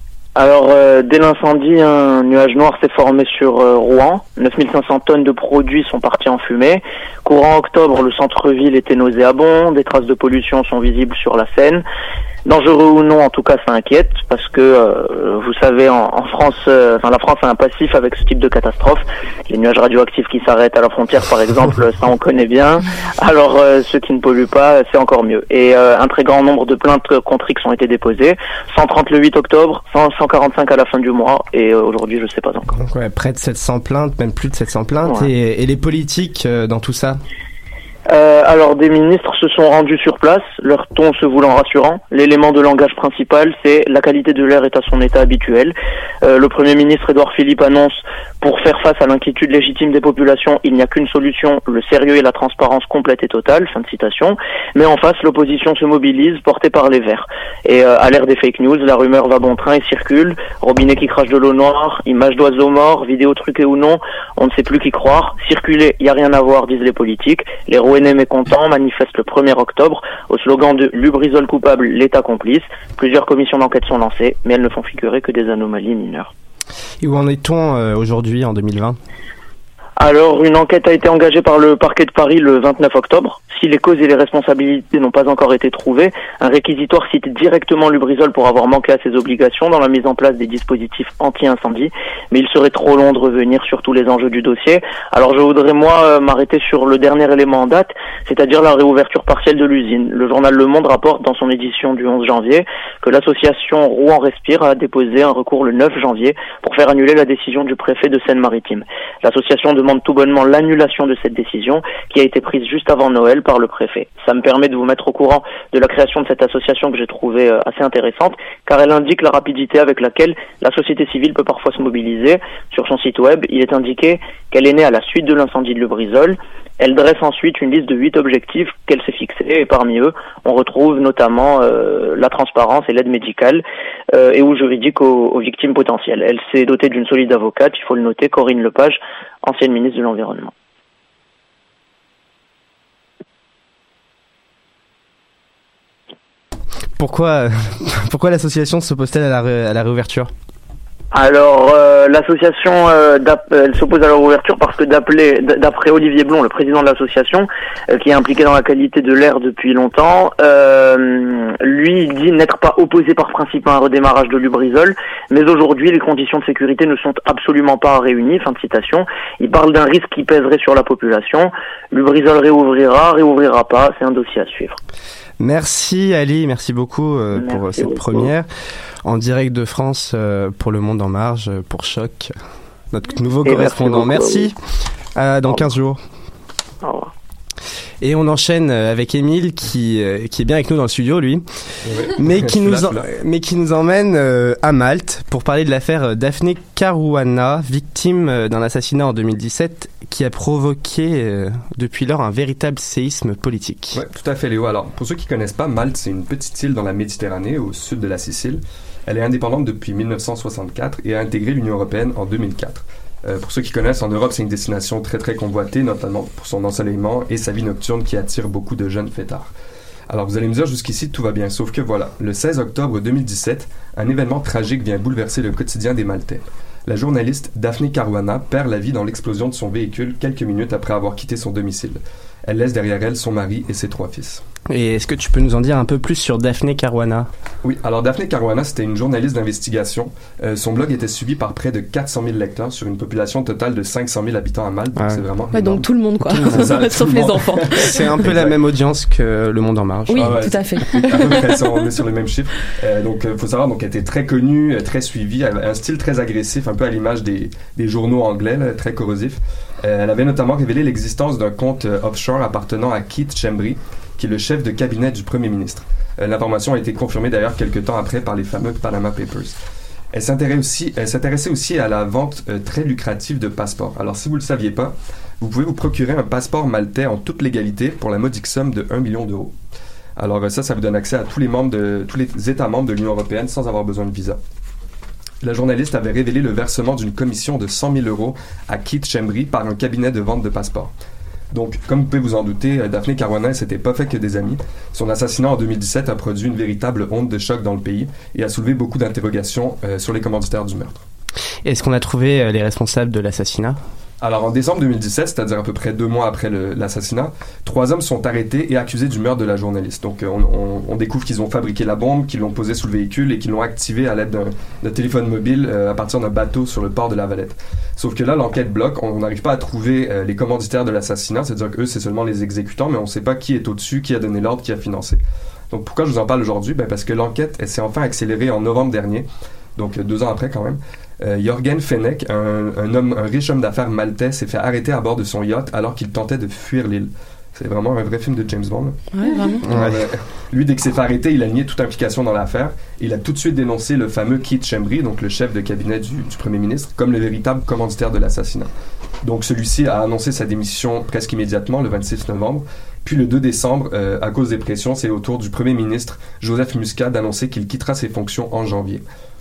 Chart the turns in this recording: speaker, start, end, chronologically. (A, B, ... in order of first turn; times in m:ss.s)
0:00.4-0:11.8 A
0:12.4-0:32.7 A
0:32.7-0:37.2 B
0:38.1-1:16.3 A
1:17.0-1:19.0 B
1:20.0-2:20.5 A
2:27.0-2:30.3 B
2:31.1-2:54.8 A
2:55.4-2:58.5 B
2:57.4-2:58.2 A
2:59.0-3:02.3 B
3:02.9-3:04.6 B
3:03.4-3:04.5 A
3:05.1-3:06.0 B
3:06.8-3:07.1 A
3:08.0-3:11.4 B
3:11.8-3:13.1 C
3:12.1-3:24.0 B
3:23.9-3:39.5 C
3:40.1-3:54.4 C
3:54.7-3:57.3 B
3:57.6-4:08.6 C
4:05.0-4:05.2 B
4:05.5-4:08.2 D
4:06.3-4:06.9 B
4:07.8-4:10.4 B
4:10.1-4:11.9 D
4:10.1-4:29.6 C
4:30.1-4:39.6 C
4:40.2-4:44.4 C
4:45.4-4:50.9 C
4:51.5-5:01.0 C
5:01.6-5:03.8 B
5:04.2-5:39.0 C
5:39.1-5:39.7 D
5:39.6-5:48.7 C
5:39.7-5:40.0 B
5:49.2-5:59.0 C